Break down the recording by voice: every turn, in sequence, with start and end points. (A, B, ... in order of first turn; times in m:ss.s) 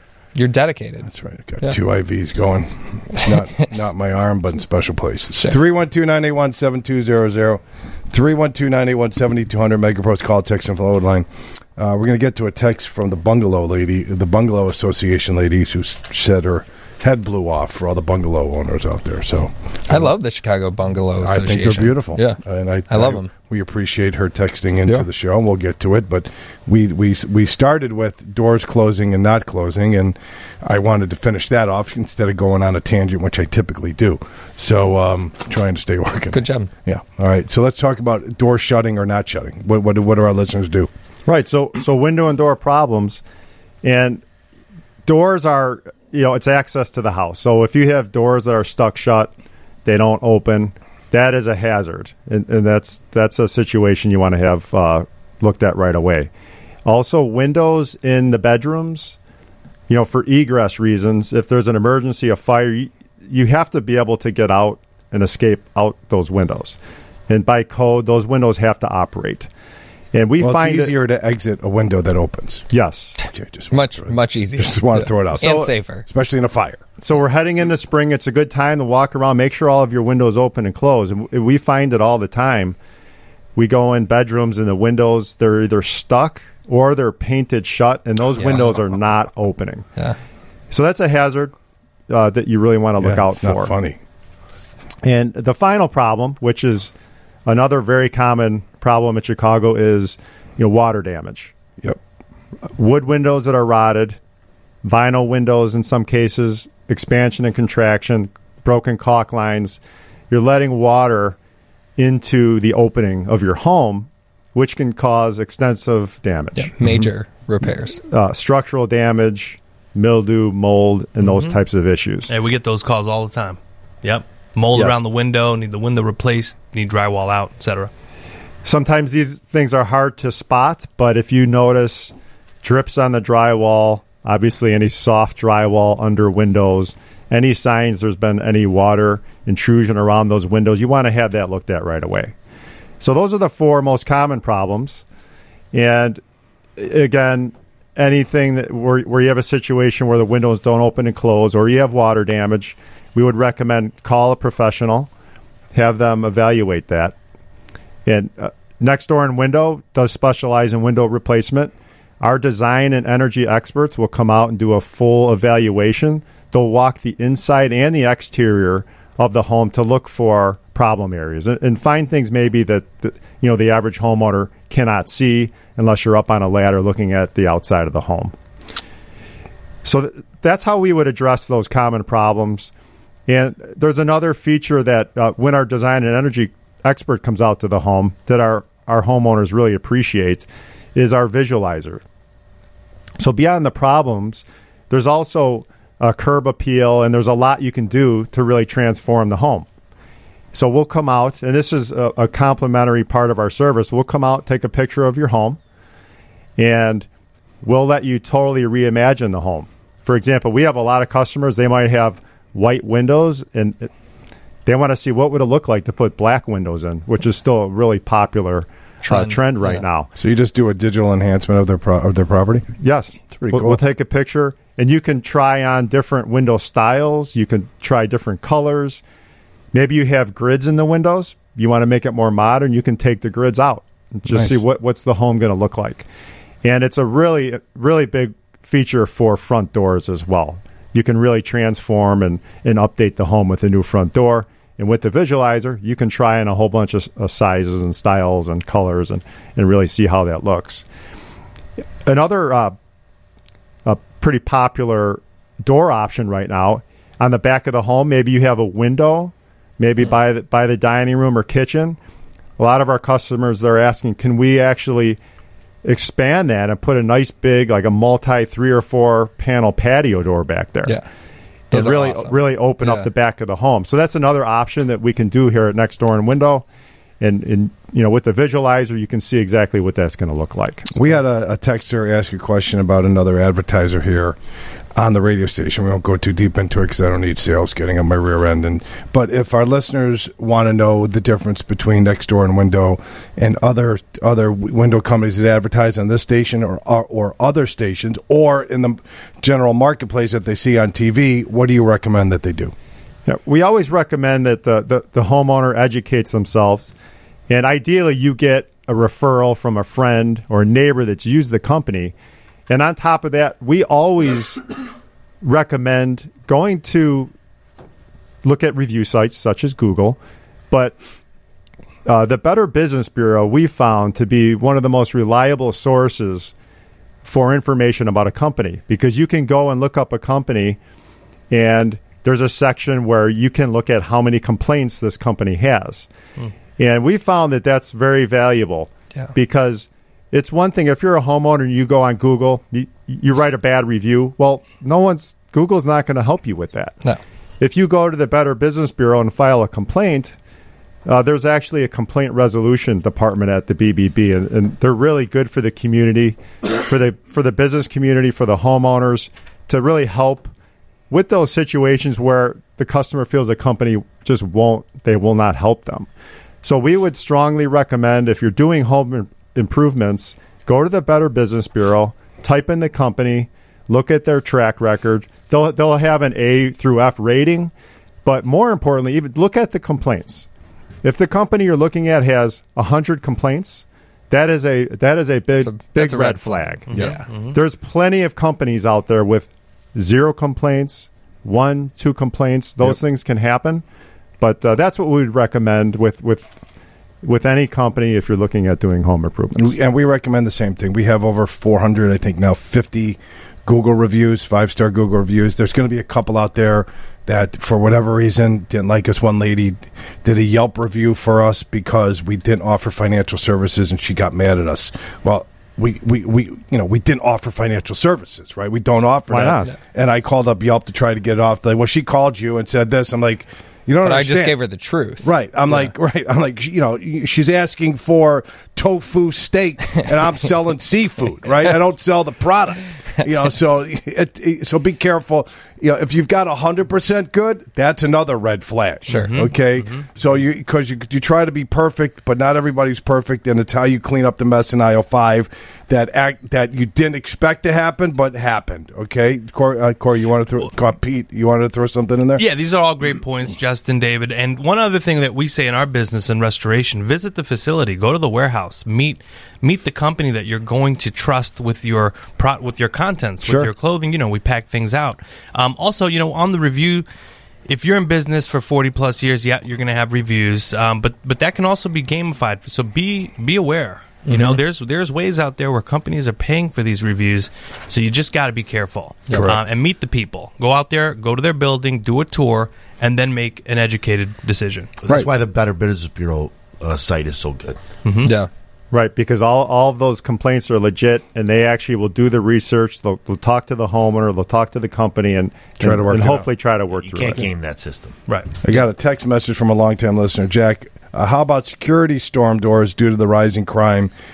0:00.4-0:01.1 A
0:01.0-0:20.1 B
0:19.9-0:23.3 A
0:21.2-0:40.9 B
0:36.3-0:36.7 A
0:41.2-0:43.2 C
0:43.8-0:44.2 C
0:45.0-0:49.3 C
0:49.8-0:56.3 C
0:56.8-0:59.2 C
0:59.9-1:06.8 C
1:07.3-1:09.5 C
1:10.1-1:11.0 C
1:10.4-1:12.7 B
1:12.7-1:13.2 C
1:13.2-1:16.8 B
1:13.7-1:16.0 A
1:17.0-1:22.8 C
1:23.6-1:29.9 C
1:30.7-1:31.6 C
1:32.1-1:33.7 C
1:33.0-1:34.0 B
1:35.0-1:36.9 C
1:37.4-1:41.5 C
1:42.7-1:44.2 C
1:44.8-1:51.4 C
1:52.0-1:56.7 C
1:56.6-1:58.0 A
1:58.0-2:02.3 C
2:01.2-2:01.6 D
2:02.3-2:07.9 D
2:08.6-2:22.3 C
2:23.0-2:25.0 C
2:25.7-2:26.2 C
2:26.8-2:35.1 C
2:35.7-2:37.2 C
2:38.1-2:58.3 C
2:59.8-3:02.7 C
3:03.3-3:12.0 C
3:13.2-3:19.7 C
3:20.5-3:25.6 C
3:26.6-3:27.1 C
3:27.6-3:33.9 C
3:34.6-3:40.1 C
3:39.1-3:39.7 D
3:40.2-3:42.7 B
3:42.8-3:49.0 C
3:43.4-3:43.8 B
3:49.7-3:56.1 C
3:54.3-3:54.6 B
3:56.6-4:10.8 C
4:12.0-4:12.8 C
4:13.8-4:22.0 C
4:22.6-4:25.2 C
4:25.8-4:31.0 C
4:31.7-4:33.1 A
4:31.7-4:36.7 C
4:37.2-4:41.0 C
4:40.9-4:44.4 B
4:45.0-5:02.7 B
5:03.3-5:07.0 C
5:07.5-5:12.1 C
5:12.7-5:14.6 C
5:15.4-5:17.3 C
5:18.4-5:20.2 C
5:20.7-5:21.0 C
5:22.0-5:26.5 C
5:27.2-5:30.8 C
5:31.5-5:36.1 C
5:36.8-5:47.0 C
5:47.6-5:50.3 C
5:51.0-6:00.5 C
6:01.1-6:06.1 C
6:06.6-6:17.7 C
6:18.2-6:20.5 C
6:21.0-6:33.8 C
6:25.6-6:27.3 A
6:26.9-6:27.6 D
6:34.4-6:36.6 C
6:37.2-6:39.7 C
6:39.6-7:04.6 B
6:59.3-6:59.7 C
7:04.0-7:05.9 A
7:05.2-7:32.4 B
7:19.1-7:19.7 D
7:32.4-7:47.1 D
7:43.4-7:43.7 B
7:47.7-8:04.9 D
7:54.3-7:54.6 A
7:59.3-7:59.5 A
7:59.3-7:59.6 B
8:05.0-8:07.8 E
8:08.0-8:08.3 D
8:08.2-8:08.5 A
8:08.9-8:17.5 C
8:15.8-8:16.5 B
8:17.1-8:18.1 E
8:18.3-8:18.6 D
8:18.6-8:24.1 B